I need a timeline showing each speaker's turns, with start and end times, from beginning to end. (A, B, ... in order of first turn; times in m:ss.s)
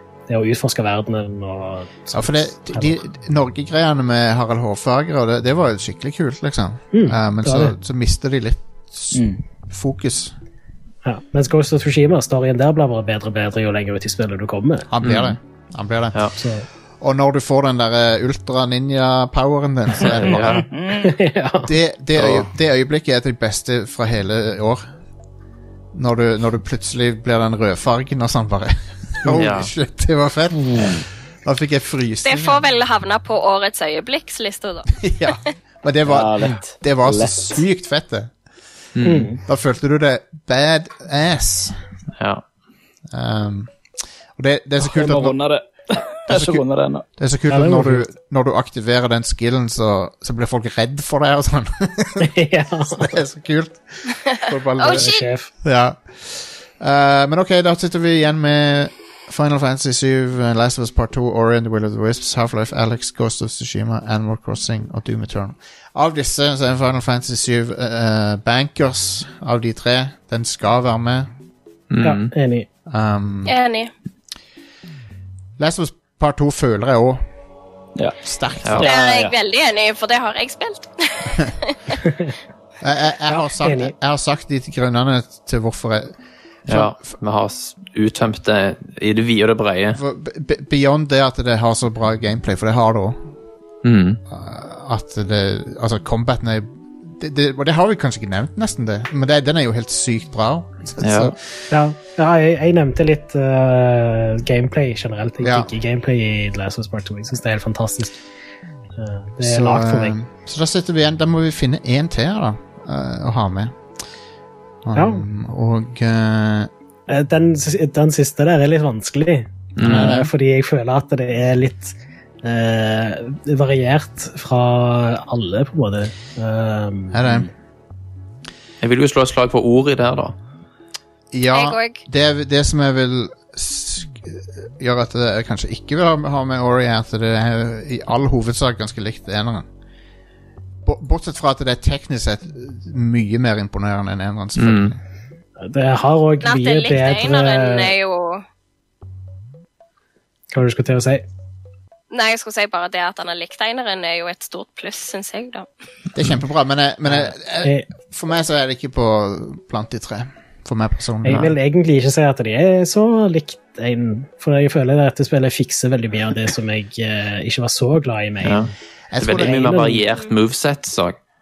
0:00.3-0:03.0 A
0:02.1-0:10.4 B
0:06.9-0:07.7 A
0:09.1-0:09.4 C
0:11.0-0:14.9 A
0:14.9-0:16.3 B
0:15.0-0:15.4 D
0:16.4-0:16.7 A
0:17.0-0:20.6 B
0:20.2-0:20.6 D
0:20.2-0:21.7 A
0:20.5-0:21.1 C
0:21.6-0:24.9 B
0:22.1-0:22.5 D
0:25.9-0:32.6 B
0:29.3-0:29.7 D
0:32.2-0:35.5 E
0:35.0-0:38.4 B
0:36.0-0:37.6 C
0:38.9-0:39.3 D
0:39.0-0:39.4 A
0:39.4-0:41.8 B
0:42.2-0:42.4 D
0:43.1-0:45.5 B
0:44.8-0:47.0 C
0:46.1-0:52.3 B
0:47.5-0:48.0 A
0:52.2-0:53.2 A
0:52.9-1:11.3 B
0:54.8-0:55.2 E
0:54.9-0:55.5 A
1:11.9-1:12.3 D
1:12.0-1:12.7 A
1:12.9-1:13.6 B
1:13.4-1:13.9 E
1:15.6-1:17.2 B
1:18.2-1:18.9 B
1:18.8-1:19.3 C
1:18.8-1:21.9 E
1:22.8-1:27.1 B
1:23.3-1:23.9 A
1:26.7-1:30.0 D
1:29.9-1:33.3 B
1:33.8-1:34.2 D
1:34.3-1:41.4 B
1:41.0-1:41.3 D
1:41.7-1:48.2 A
1:45.4-1:45.7 B
1:49.0-1:50.2 A
1:49.4-1:53.8 B
1:54.8-1:56.7 B
1:54.9-1:55.2 A
1:57.1-2:07.2 A
1:59.8-2:00.1 D
1:59.8-2:00.3 B
2:07.1-2:07.5 B
2:08.8-2:10.3 D
2:11.3-2:19.6 B
2:11.5-2:12.0 E
2:20.8-2:25.0 B
2:24.6-2:25.0 D
2:25.6-2:27.9 A
2:26.4-2:28.4 E
2:30.5-2:31.2 A
2:32.1-2:35.7 E
2:36.1-2:41.5 B
2:37.1-2:37.9 A
2:41.2-2:48.7 A
2:48.4-2:51.2 D
2:49.1-2:49.8 B
2:49.3-2:50.0 A